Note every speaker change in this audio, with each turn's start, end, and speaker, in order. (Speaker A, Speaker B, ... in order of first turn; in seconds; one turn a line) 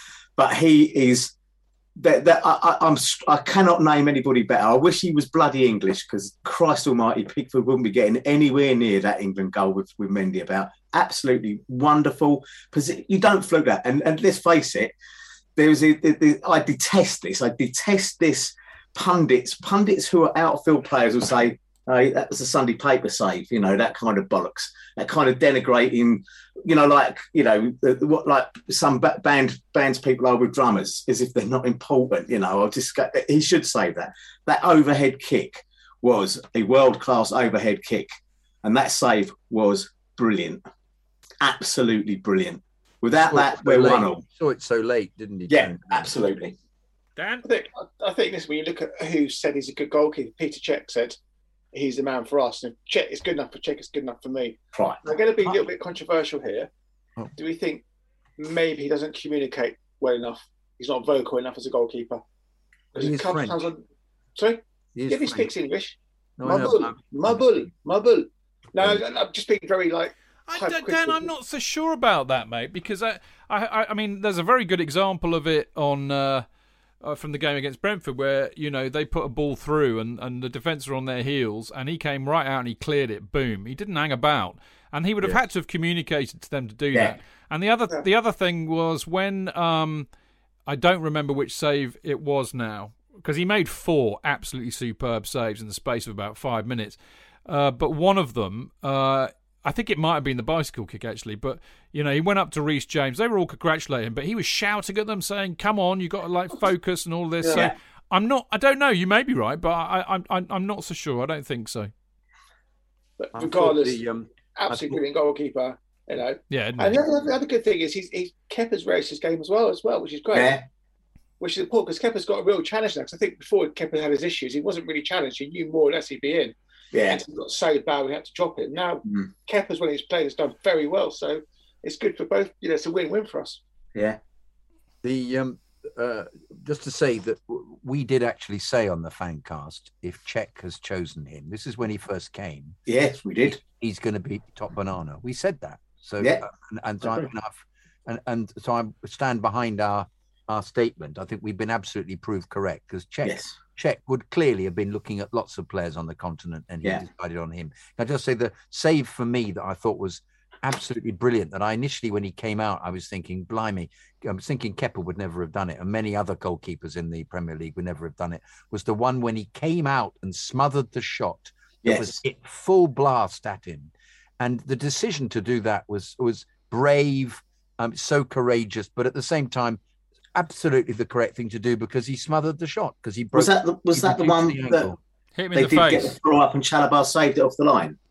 Speaker A: 0.4-1.3
Speaker A: 2.0-14.9
Speaker A: 15.6-38.1
Speaker A: 38.6-40.6
Speaker A: 41.4-44.2
Speaker B: 43.2-46.0
Speaker A: 45.5-46.5
Speaker C: 47.2-47.5
Speaker D: 47.4-51.2
Speaker D: 51.7-56.7
Speaker A: 54.8-55.1
Speaker D: 57.4-57.8
Speaker D: 58.4-62.2
Speaker D: 62.9-63.8
Speaker B: 63.0-63.7
Speaker D: 64.4-71.3
Speaker B: 65.0-65.5
Speaker B: 66.4-67.4
Speaker B: 68.8-69.0
Speaker C: 70.5-76.5
Speaker C: 77.0-90.1
Speaker C: 90.7-111.9
Speaker A: 107.4-107.7
Speaker D: 113.2-114.0
Speaker B: 113.3-115.0
Speaker D: 114.6-120.6
Speaker C: 116.5-117.0
Speaker A: 120.3-120.6
Speaker D: 121.4-126.5
Speaker A: 126.9-127.2
Speaker D: 127.1-133.6
Speaker B: 135.0-142.8
Speaker A: 142.9-143.6
Speaker B: 143.4-179.8
Speaker A: 147.0-147.3
Speaker A: 153.2-153.6
Speaker A: 171.8-172.2
Speaker B: 180.3-185.0
Speaker A: 183.3-184.9
Speaker C: 185.3-186.2
Speaker A: 185.5-188.0